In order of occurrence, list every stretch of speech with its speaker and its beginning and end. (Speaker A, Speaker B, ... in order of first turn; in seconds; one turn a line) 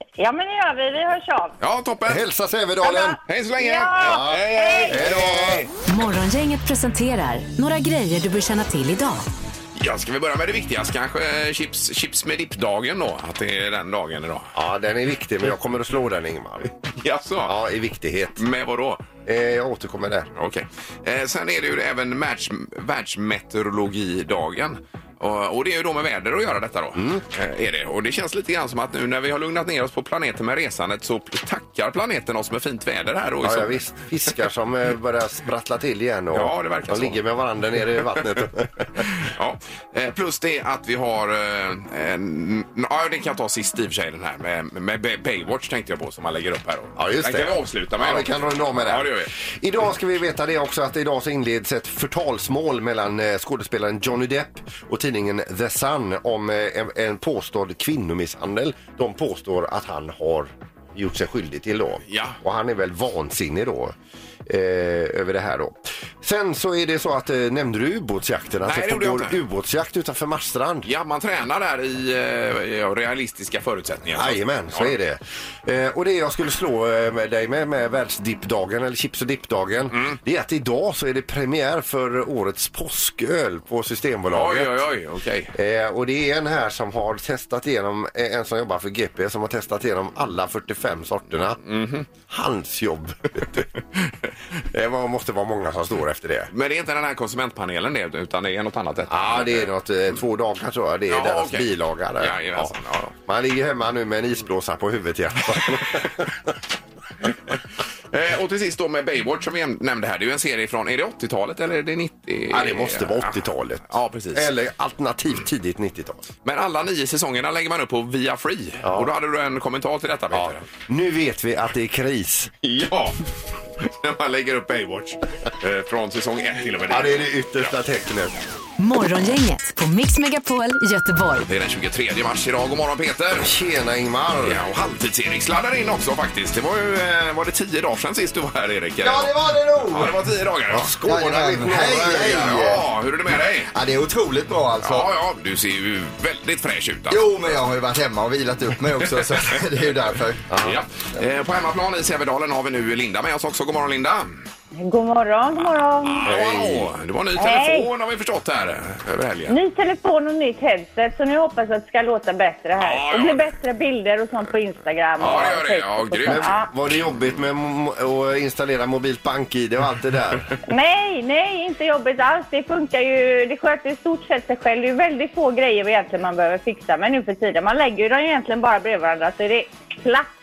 Speaker A: 0.2-1.6
Speaker B: 1.6-2.2
Speaker C: 2.0-3.2
Speaker A: 2.8-5.0
Speaker B: 3.3-5.7
Speaker C: 4.0-5.7
Speaker D: 5.8-9.3
Speaker B: 9.8-14.5
Speaker C: 14.5-16.7
Speaker B: 17.0-17.6
Speaker C: 17.4-18.4
Speaker B: 18.4-19.1
Speaker C: 19.3-20.3
Speaker B: 20.4-33.9
Speaker C: 26.9-27.2
Speaker C: 33.4-39.0
Speaker B: 36.3-37.2
Speaker B: 38.1-38.4
Speaker B: 39.0-49.3
Speaker C: 47.0-64.0
Speaker B: 62.1-62.4
Speaker C: 64.5-70.9
Speaker B: 68.6-69.4
Speaker B: 70.8-75.0
Speaker C: 74.1-84.8
Speaker B: 84.3-85.5
Speaker C: 85.5-91.6
Speaker B: 91.6-92.1
Speaker C: 92.3-93.7
Speaker C: 94.7-96.5
Speaker B: 96.5-99.7
Speaker C: 99.1-102.7
Speaker B: 101.1-103.1
Speaker C: 103.3-106.3
Speaker B: 108.1-114.5
Speaker C: 112.5-116.3
Speaker B: 116.5-120.7
Speaker C: 118.8-119.1
Speaker C: 120.3-122.5
Speaker B: 122.6-123.2
Speaker B: 123.8-127.7
Speaker C: 126.9-128.4
Speaker D: 128.8-131.5
Speaker B: 131.4-133.5
Speaker C: 133.3-134.6
Speaker B: 134.4-139.3
Speaker E: 139.0-140.1
Speaker B: 139.9-143.7
Speaker C: 140.7-142.5
Speaker E: 141.1-142.8
Speaker E: 143.7-145.1
Speaker B: 144.8-147.6
Speaker E: 147.1-150.4
Speaker C: 150.5-150.8
Speaker B: 150.6-154.3
Speaker A: 154.8-156.3
Speaker B: 156.0-159.6
Speaker C: 156.2-156.9
Speaker A: 157.4-157.9
Speaker A: 159.5-166.7
Speaker B: 162.8-163.4
Speaker B: 165.2-166.5
Speaker C: 166.2-170.5
Speaker A: 170.7-180.3